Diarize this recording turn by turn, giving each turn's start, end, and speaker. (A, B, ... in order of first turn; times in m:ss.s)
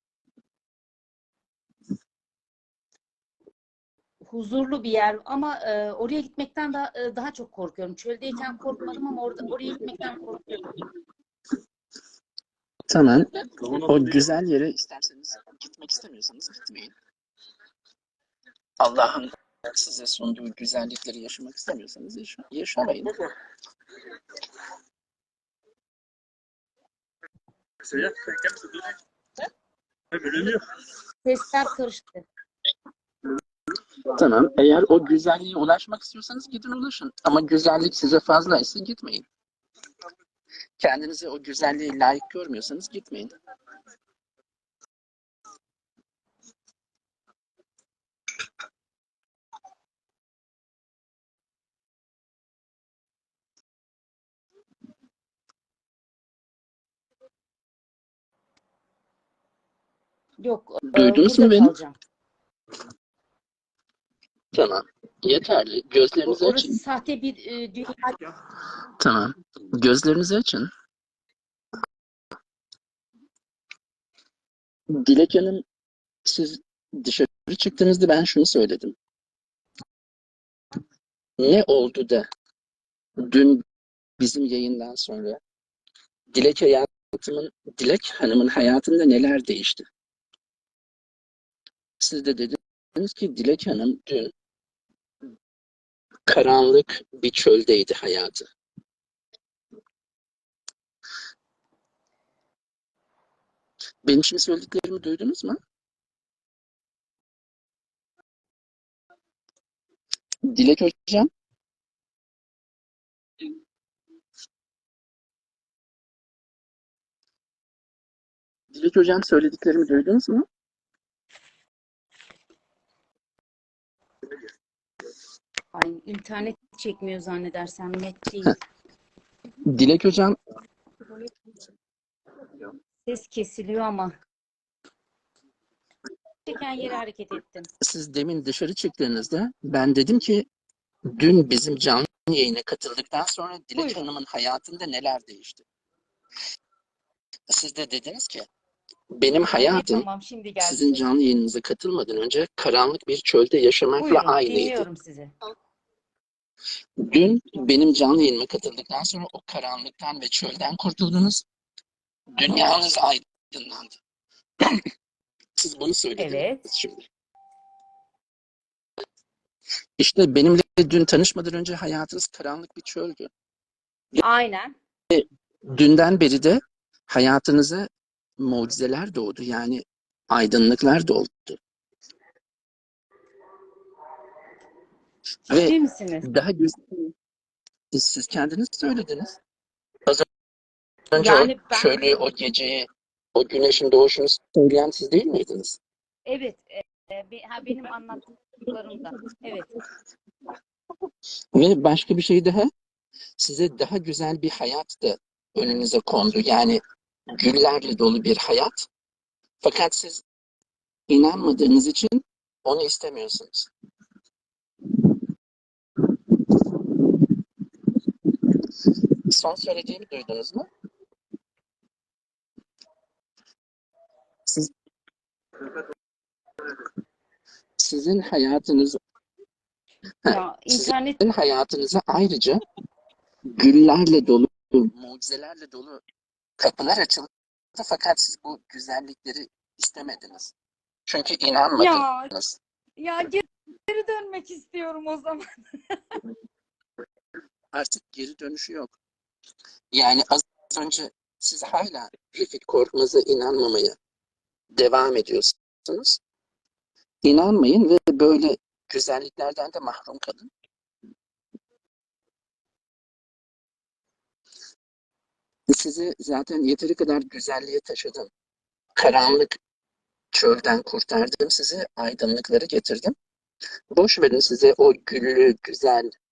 0:04.2-0:10.6 A
0:12.9-0:16.9 B
0:18.8-0:23.2 B
0:27.8-0:28.9 B
0:30.1-0:30.6 B
0:31.2-0:32.2 A
0:34.1-0:39.3 B
0:40.8-0:43.3 B
1:00.4-1:02.0 A
1:00.9-1:01.7 B
1:04.5-1:06.8 B
1:06.3-1:08.2 A
1:09.0-1:10.7 B
1:14.9-1:15.6 B
1:16.2-1:19.0 B
1:21.4-1:22.3 B
1:23.2-1:23.6 B
1:24.2-1:25.4 B
1:26.3-1:29.9 B
1:32.0-1:34.3 B
1:36.3-1:38.5 B
1:44.0-1:45.6 B
1:50.4-1:51.3 B
1:58.7-2:00.5 B
2:05.7-2:08.6 A
2:09.7-2:10.4 B
2:13.1-2:14.1 A
2:16.5-2:17.7 A
2:17.8-2:20.5 B
2:21.1-2:25.6 B
2:27.5-2:28.5 B
2:29.1-2:30.1 B
2:29.5-2:31.1 A
2:30.6-2:34.9 B
2:34.0-2:35.3 A
2:37.0-2:41.4 B
2:42.4-2:44.0 B
2:45.6-2:47.0 B
2:46.2-2:46.6 A
2:50.0-2:53.3 B
2:54.2-2:54.7 A
2:55.1-2:57.9 B
2:58.4-3:01.6 B
3:05.5-3:06.3 A
3:05.5-3:07.1 B
3:07.9-3:09.4 B
3:11.1-3:15.8 B
3:11.2-3:12.1 A
3:16.3-3:19.7 A
3:21.6-3:22.7 B
3:23.4-3:26.8 B
3:27.3-3:28.9 B
3:29.6-3:30.2 B
3:31.1-3:33.7 B
3:36.5-3:36.8 B
3:39.1-3:40.7 B
3:44.5-3:44.7 B
3:47.8-3:49.0 B
3:50.2-3:52.6 B
3:50.3-3:51.2 A
3:53.6-3:56.0 B
3:56.6-4:00.5 B
4:01.1-4:02.6 B
4:01.8-4:02.3 A
4:03.0-4:06.2 A
4:07.7-4:09.0 B
4:09.9-4:14.0 B
4:14.7-4:16.2 B
4:17.2-4:20.5 B
4:25.7-4:28.3 B
4:29.0-4:29.6 B
4:30.3-4:33.1 B
4:33.9-4:36.1 B